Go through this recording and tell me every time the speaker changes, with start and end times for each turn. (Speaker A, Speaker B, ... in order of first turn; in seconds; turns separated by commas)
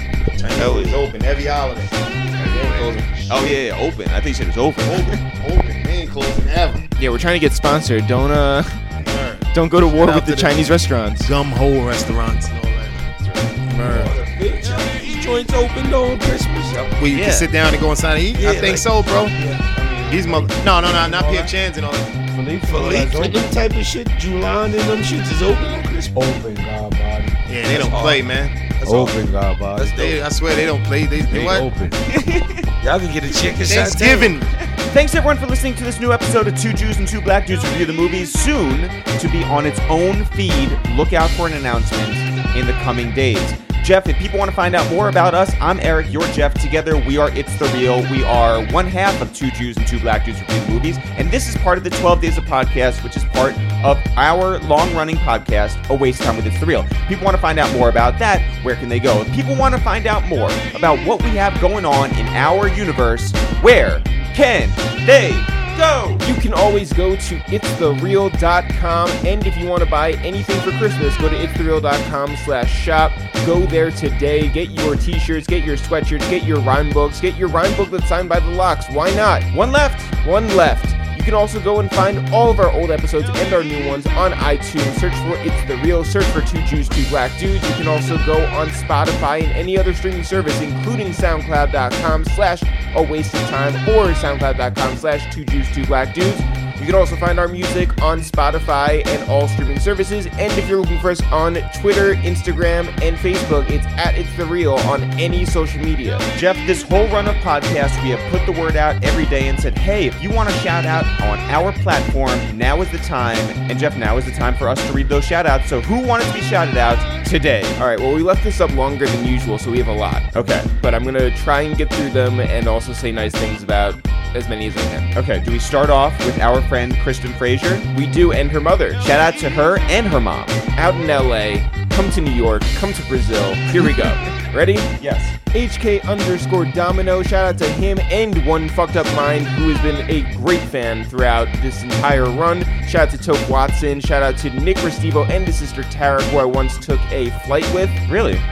Speaker A: 0.3-3.6, Speaker B: 0.5-1.0, Speaker C: 3.3-5.2, Speaker A: 4.8-6.9, Speaker D: 7.0-8.8, Speaker A: 9.0-10.7, Speaker D: 9.5-11.3, Speaker A: 11.2-14.2, Speaker B: 13.8-17.0, Speaker A: 17.0-19.4, Speaker D: 17.1-17.4, Speaker C: 17.1-17.4, Speaker B: 18.4-19.7, Speaker E: 19.6-21.5, Speaker A: 20.1-22.2, Speaker E: 22.3-23.6, Speaker B: 22.7-26.2, Speaker E: 26.1-27.4, Speaker A: 27.5-28.6, Speaker B: 27.6-29.2, Speaker E: 28.9-30.0, Speaker B: 29.8-30.2, Speaker A: 30.0-31.7, Speaker E: 31.2-32.0, Speaker C: 32.1-32.7, Speaker B: 32.8-34.4, Speaker A: 33.6-34.5, Speaker C: 34.8-66.2, Speaker D: 66.2-79.5, Speaker C: 79.5-80.1, Speaker D: 80.2-106.2, Speaker C: 106.3-117.8, Speaker D: 117.8-125.1, Speaker C: 120.3-120.7, Speaker C: 125.1-127.9, Speaker D: 127.9-129.0, Speaker C: 129.0-130.6, Speaker D: 130.8-134.9, Speaker C: 135.0-135.3, Speaker D: 135.5-148.0, Speaker C: 148.1-148.4